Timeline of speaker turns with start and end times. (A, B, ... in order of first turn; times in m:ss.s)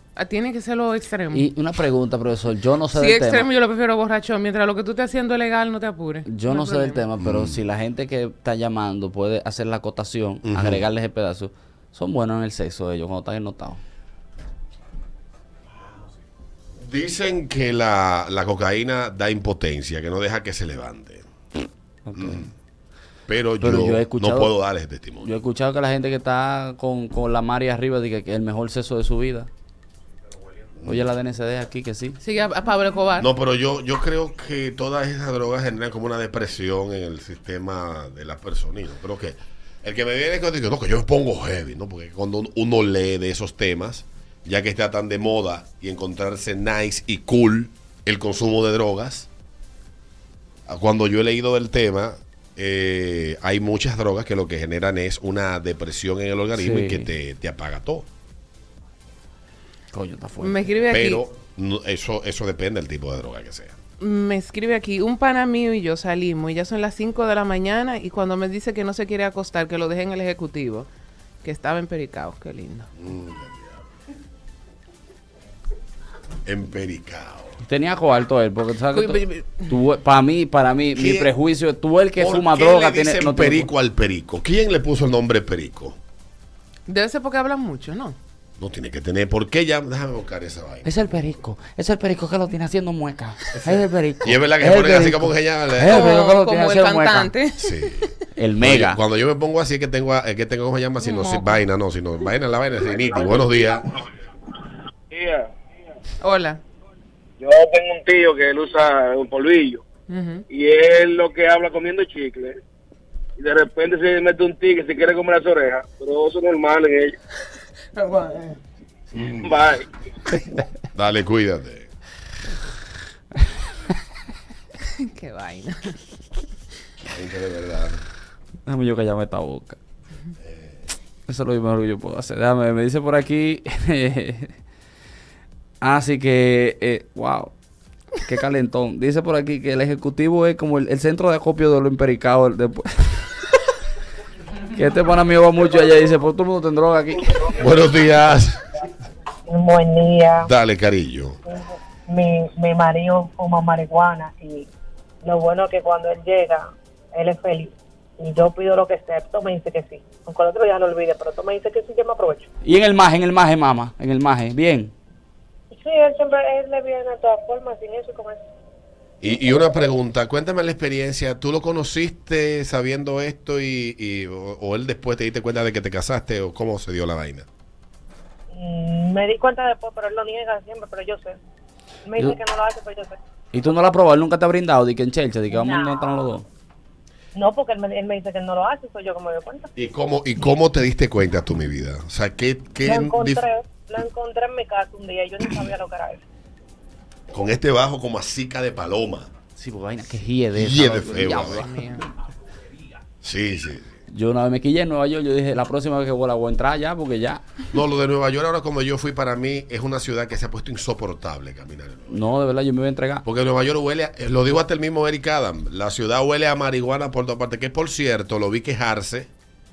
0:00.2-0:01.5 A
0:01.3-0:03.5 B
0:02.9-0:07.0 A
0:06.2-0:13.8 B
0:07.2-0:07.6 C
0:10.4-0:10.8 C
0:16.8-0:21.2 C
0:22.0-0:22.5 B
0:22.2-0:22.5 C
0:23.3-0:25.3 C
0:23.6-0:24.6 B
0:25.2-0:29.5 B
0:30.8-0:32.2 B
0:32.2-0:33.3 A
0:33.2-0:49.3 C
0:50.7-0:58.0 C
0:56.5-0:57.1 B
0:59.9-1:00.7 B
1:00.4-1:01.2 A
1:00.9-1:03.8 C
1:04.0-1:10.9 A
1:11.4-1:12.9 A
1:13.0-1:13.8 C
1:16.4-1:17.6 C
1:17.6-1:23.7 B
1:20.9-1:21.3 C
1:22.2-1:26.0 C
1:26.9-1:28.2 A
1:28.6-1:30.9 C
1:30.8-1:37.3 B
1:33.5-1:36.2 C
1:35.9-1:38.2 A
1:37.6-1:38.1 C
1:38.3-1:39.0 B
1:38.6-1:43.8 C
1:41.0-1:41.6 A
1:45.1-1:45.5 D
1:46.2-1:46.6 A
1:47.4-1:49.8 D
1:50.1-1:50.4 A
1:50.5-1:52.6 D
1:53.4-1:57.1 D
1:58.0-1:58.6 A
1:59.1-1:59.5 C
1:59.4-1:59.8 D
2:00.9-2:01.9 C
2:04.9-2:06.0 A
2:07.1-2:08.0 C
2:08.6-2:09.8 B
2:10.4-2:10.8 C
2:11.3-2:14.6 B
2:15.8-2:17.5 B
2:18.2-2:23.3 B
2:24.7-2:27.6 B
2:27.6-2:28.6 C
2:29.5-2:30.5 E
2:30.4-2:31.4 C
2:31.4-2:34.7 E
2:35.2-2:42.5 E
2:42.6-2:44.9 B
2:45.7-2:48.4 E
2:49.2-2:57.4 C
2:58.5-3:01.4 E
3:02.1-3:03.2 E
3:03.5-3:06.4 B
3:05.5-3:06.3 E
3:07.3-3:09.7 E
3:09.8-3:13.4 C
3:12.8-3:16.2 E
3:17.3-3:19.3 C
3:19.6-3:22.0 B
3:20.5-3:21.6 C
3:21.6-3:22.0 A
3:23.2-3:24.0 C
3:24.1-3:27.4 B
3:27.7-3:32.2 C
3:32.1-3:33.2 B
3:33.2-3:39.3 C